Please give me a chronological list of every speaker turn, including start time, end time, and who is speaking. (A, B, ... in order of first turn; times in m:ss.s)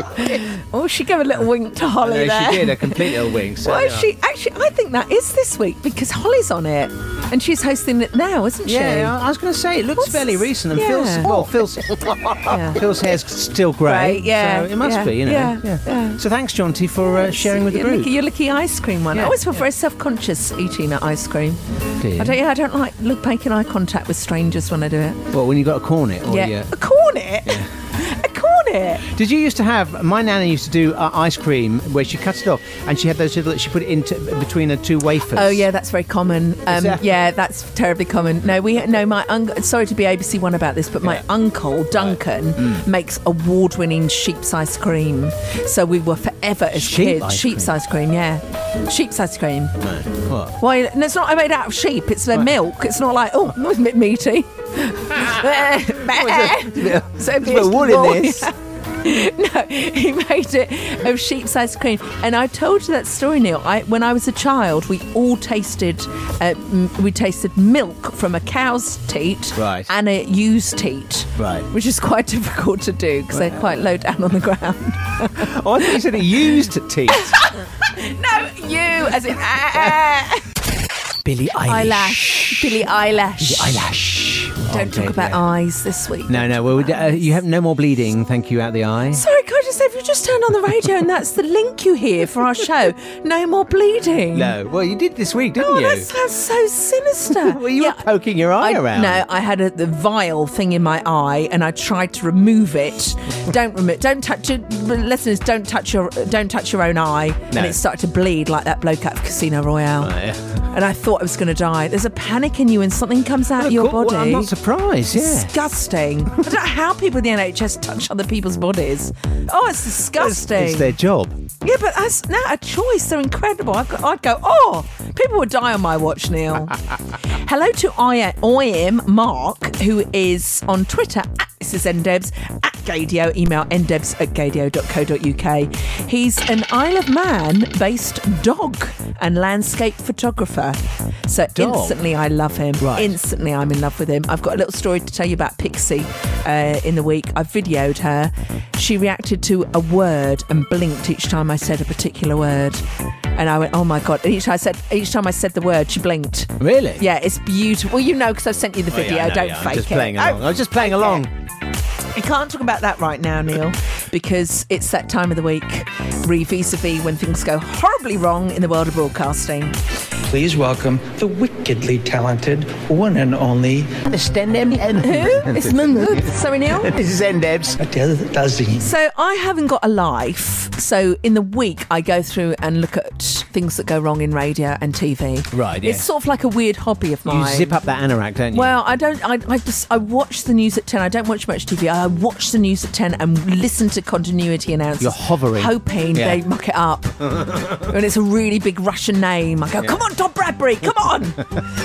0:00.2-0:09.2 A
0:02.0-0:04.1 B
0:08.6-0:18.1 B
0:10.0-0:11.6 A
0:12.4-0:13.0 A
0:13.8-0:16.2 A
0:17.0-0:21.6 A
0:19.1-0:19.5 B
0:22.0-0:22.4 B
0:22.2-0:25.3 A
0:25.3-0:26.7 B
0:26.3-0:29.0 A
0:27.5-0:27.7 B
0:29.0-0:35.7 B
0:35.3-0:49.8 A
0:36.7-0:37.0 B
0:41.9-0:42.8 B
0:46.7-0:47.8 B
0:49.8-0:50.6 B
0:50.6-1:16.0 A
0:56.0-0:58.5 B
1:09.6-1:09.9 B
1:11.4-1:11.7 B
1:13.3-1:13.6 B
1:15.4-1:17.4 B
1:17.1-1:20.5 A
1:21.2-1:22.8 B
1:21.6-1:23.8 A
1:23.4-1:25.4 B
1:24.7-1:27.3 A
1:26.3-1:29.2 B
1:29.1-1:34.6 A
1:34.3-1:36.1 B
1:35.6-1:38.0 A
1:37.3-1:39.2 B
1:38.6-1:50.1 A
1:47.5-1:47.8 B
1:50.0-1:50.7 B
1:50.7-1:54.5 A
1:53.6-1:55.6 B
1:55.1-2:01.0 A
2:00.1-2:01.4 B
2:01.6-2:32.8 A
2:21.6-2:22.0 B
2:22.8-2:23.2 B
2:33.4-2:41.2 A
2:36.6-2:37.0 B
2:38.9-2:41.3 B
2:42.1-2:49.8 A
2:50.3-2:54.0 C
2:54.0-2:57.8 B
2:55.0-2:56.9 A
2:57.8-2:58.9 C
2:58.8-3:07.8 A
3:05.5-3:06.1 B
3:07.3-3:08.8 B
3:08.5-3:21.6 A
3:15.0-3:16.4 B